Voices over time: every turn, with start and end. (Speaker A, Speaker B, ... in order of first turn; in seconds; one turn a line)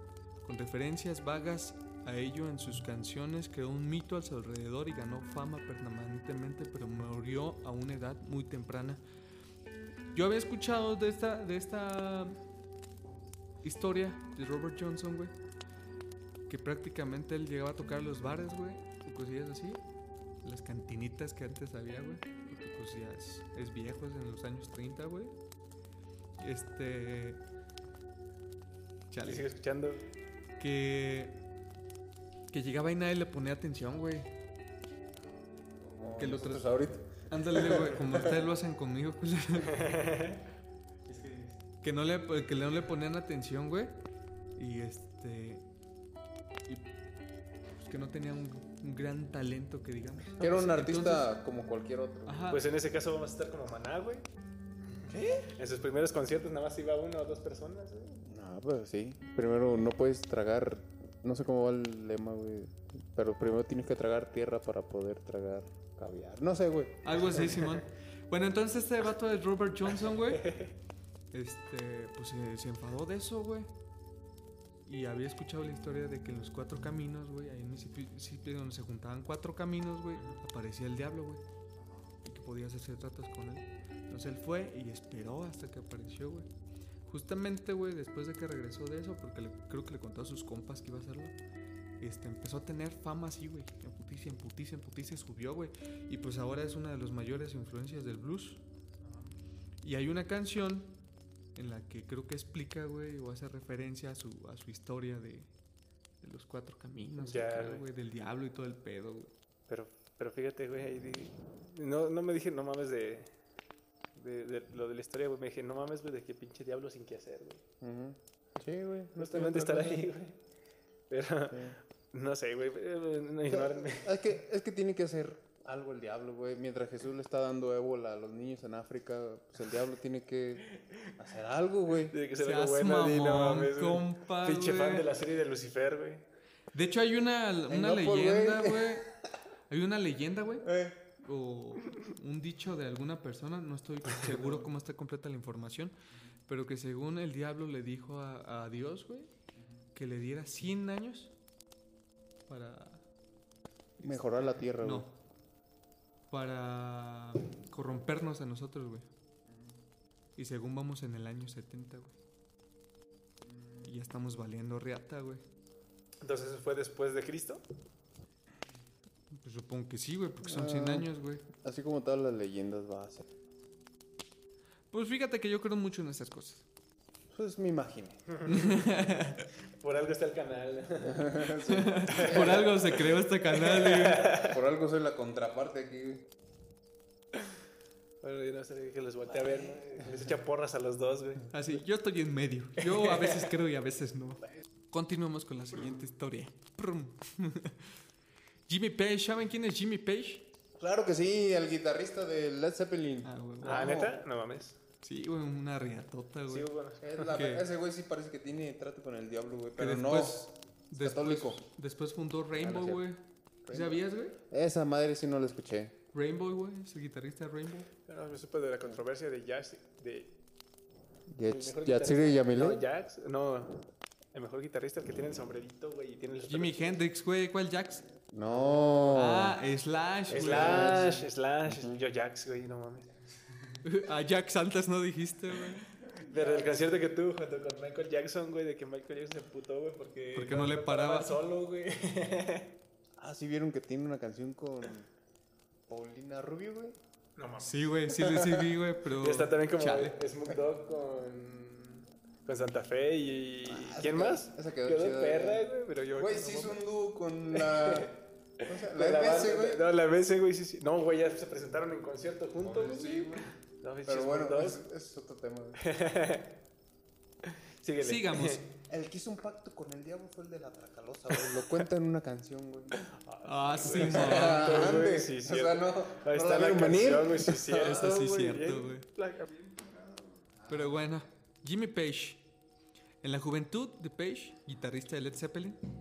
Speaker A: 0.4-9.0
Speaker A: 10.1-12.4
Speaker A: 13.6-15.3
Speaker A: 16.5-19.8
Speaker A: 20.4-25.3
Speaker A: 26.4-27.4
Speaker A: 29.1-29.5
Speaker B: 29.2-30.1
Speaker A: 30.6-31.4
Speaker A: 32.5-34.3
Speaker C: 35.8-38.4
Speaker A: 36.1-40.0
Speaker B: 39.7-40.4
Speaker A: 41.1-44.0
Speaker A: 44.6-45.6
Speaker A: 47.8-51.4
Speaker C: 50.4-52.5
Speaker A: 52.3-52.7
Speaker B: 52.5-54.3
Speaker C: 55.1-55.5
Speaker B: 55.3-58.2
Speaker C: 58.2-67.1
Speaker A: 67.0-70.6
Speaker B: 70.4-70.7
Speaker A: 71.3-73.7
Speaker A: 74.9-81.4
Speaker A: 82.2-86.5
Speaker A: 87.0-91.3
Speaker A: 92.0-98.6
Speaker A: 99.8-101.0
Speaker A: 101.5-105.5
Speaker A: 106.2-109.3
Speaker B: 107.2-107.8
Speaker B: 109.7-113.3
Speaker B: 114.2-117.6
Speaker C: 117.8-120.0
Speaker B: 119.2-120.4
Speaker B: 121.1-124.1
Speaker C: 121.5-121.8
Speaker C: 123.5-132.2
Speaker B: 132.1-136.2
Speaker A: 132.4-135.1
Speaker A: 136.7-139.1
Speaker C: 137.7-139.3
Speaker A: 139.7-145.9
Speaker C: 140.6-141.0
Speaker C: 144.3-144.7
Speaker A: 146.5-149.3
Speaker A: 149.9-151.3
Speaker A: 152.5-153.0
Speaker C: 154.0-155.1
Speaker A: 154.0-155.2
Speaker A: 156.3-159.1
Speaker C: 159.5-159.8
Speaker A: 160.4-162.2
Speaker C: 163.4-163.9
Speaker A: 163.8-165.4
Speaker B: 166.2-167.6
Speaker A: 169.3-171.4
Speaker C: 170.4-173.3
Speaker A: 174.9-176.7
Speaker C: 177.3-178.2
Speaker B: 178.3-181.5
Speaker A: 178.5-179.4
Speaker C: 181.0-182.7
Speaker A: 181.7-184.3
Speaker B: 182.1-184.5
Speaker C: 184.4-186.3
Speaker B: 188.2-191.5
Speaker A: 191.5-197.9
Speaker B: 192.8-193.5
Speaker A: 198.7-200.5
Speaker C: 200.8-204.2
Speaker A: 203.2-204.0
Speaker B: 203.6-204.8
Speaker A: 205.0-207.7
Speaker B: 206.5-207.1
Speaker C: 207.0-210.5
Speaker A: 209.8-214.4
Speaker C: 211.0-211.6
Speaker C: 212.5-213.1
Speaker C: 213.7-216.0
Speaker A: 216.1-217.9
Speaker B: 218.1-220.3
Speaker C: 221.3-222.9
Speaker B: 221.4-223.8
Speaker B: 224.3-227.0
Speaker A: 226.4-228.1
Speaker C: 228.3-229.6
Speaker B: 228.5-229.2
Speaker A: 229.1-231.2
Speaker B: 230.3-233.1
Speaker C: 230.3-231.1
Speaker C: 231.7-232.0
Speaker A: 233.8-235.9
Speaker C: 236.2-237.0
Speaker B: 236.2-242.7
Speaker A: 240.3-241.4
Speaker C: 243.2-245.1
Speaker C: 245.9-247.0
Speaker B: 247.4-247.9
Speaker A: 247.6-250.2
Speaker C: 248.1-248.8
Speaker B: 249.2-256.8
Speaker C: 253.7-259.9
Speaker B: 257.5-258.1
Speaker B: 258.8-264.8
Speaker C: 262.6-263.5
Speaker C: 264.1-265.8
Speaker B: 265.8-266.5
Speaker B: 267.8-268.6
Speaker A: 268.0-268.6
Speaker C: 268.9-273.0
Speaker B: 272.9-279.9
Speaker A: 273.4-275.1
Speaker C: 273.8-278.3
Speaker A: 277.8-279.1
Speaker C: 279.9-281.2
Speaker A: 280.7-282.4
Speaker A: 283.2-285.8